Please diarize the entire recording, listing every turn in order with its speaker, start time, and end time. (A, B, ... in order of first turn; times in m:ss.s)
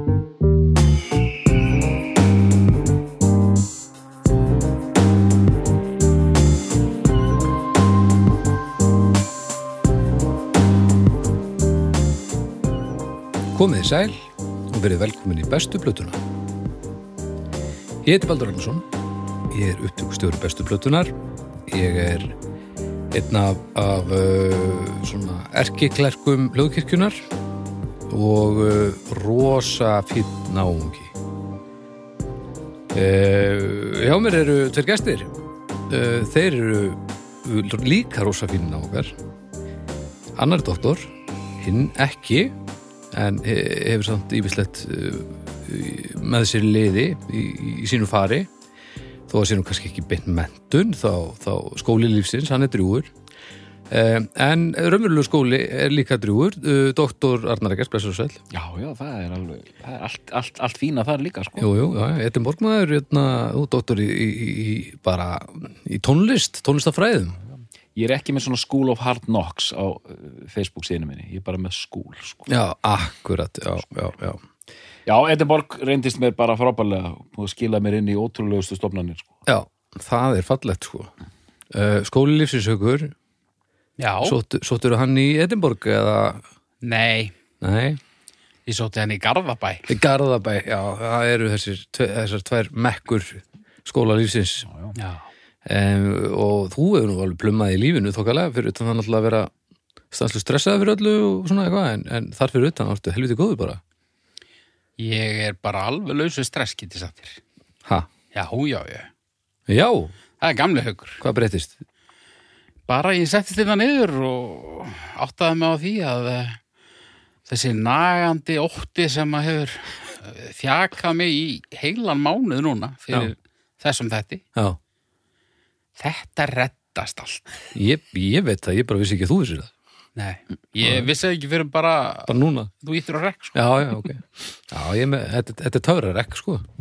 0:13.5-0:16.2 A
0:18.0-0:18.8 A
0:19.5-0:21.1 A
0:21.7-0:22.3 A
0:23.1-0:27.2 A
0:28.1-0:31.1 A
0:32.9-0:35.3 A
0:35.9-0:39.1 A
0:40.4-0:42.5 A
0:43.1-0:48.5 A
0:49.3-0:53.1 A
0:53.9-0:58.4 A
0:58.5-1:01.7 B
1:01.6-1:07.4 A
1:07.9-1:12.5 B
1:12.5-1:14.4 A
1:15.0-1:19.3 B
1:19.4-1:21.1 A
1:21.7-1:23.1 A
1:24.0-1:24.4 C
1:24.2-1:26.4 A
1:26.8-1:27.3 C
1:27.6-1:28.0 A
1:28.6-1:29.9 C
1:29.9-1:34.7 A
1:34.7-1:34.9 B
1:34.9-1:35.2 C
1:35.6-1:39.5 A
1:40.1-1:43.8 A
1:45.0-1:47.4 C
1:48.3-1:49.1 C
1:49.7-1:50.1 A
1:50.4-1:51.2 C
1:51.2-1:51.8 A
1:52.9-1:56.6 C
1:57.5-2:04.4 C
2:06.0-2:07.6 C
2:07.7-2:09.7 A
2:10.2-2:13.6 C
2:10.8-2:11.1 A
2:12.3-2:12.7 A
2:13.5-2:16.6 A